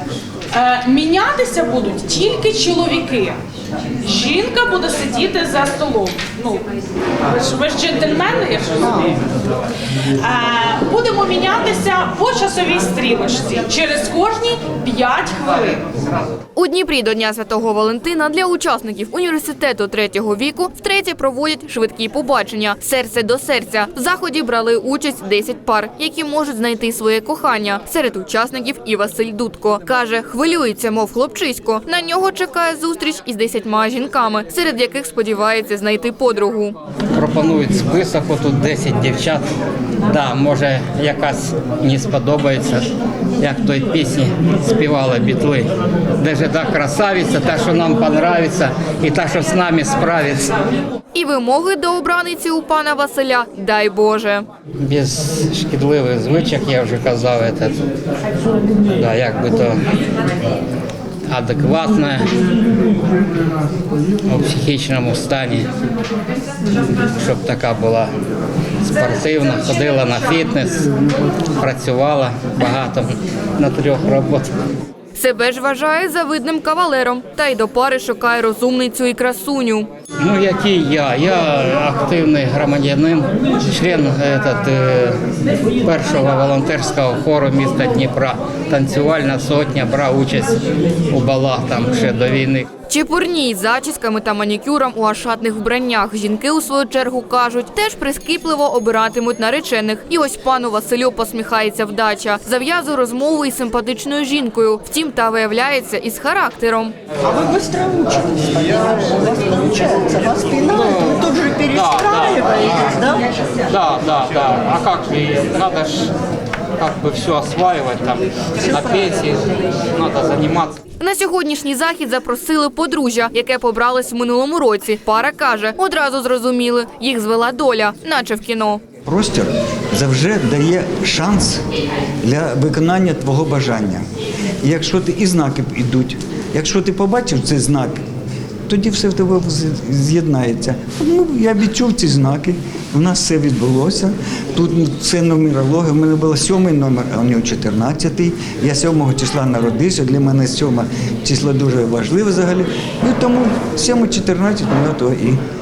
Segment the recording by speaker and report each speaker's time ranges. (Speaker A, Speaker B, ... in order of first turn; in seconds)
Speaker A: 0.5-3.4, 4.0-9.2, 10.0-15.8
Speaker B: 16.6-36.8, 51.1-54.5, 75.1-79.9, 92.9-106.9, 121.0-128.8
Speaker C: 37.1-39.5, 40.0-50.5, 54.8-57.8, 58.9-59.8, 61.3-62.3, 64.2-65.7, 67.0-68.1, 68.8-74.5, 80.2-85.2, 85.8-90.6, 91.1-92.7, 109.8-116.1, 116.8-120.8
Speaker D: 107.5-109.5
Speaker E: 129.0-131.6, 132.2-134.0, 134.6-138.0, 138.7-155.4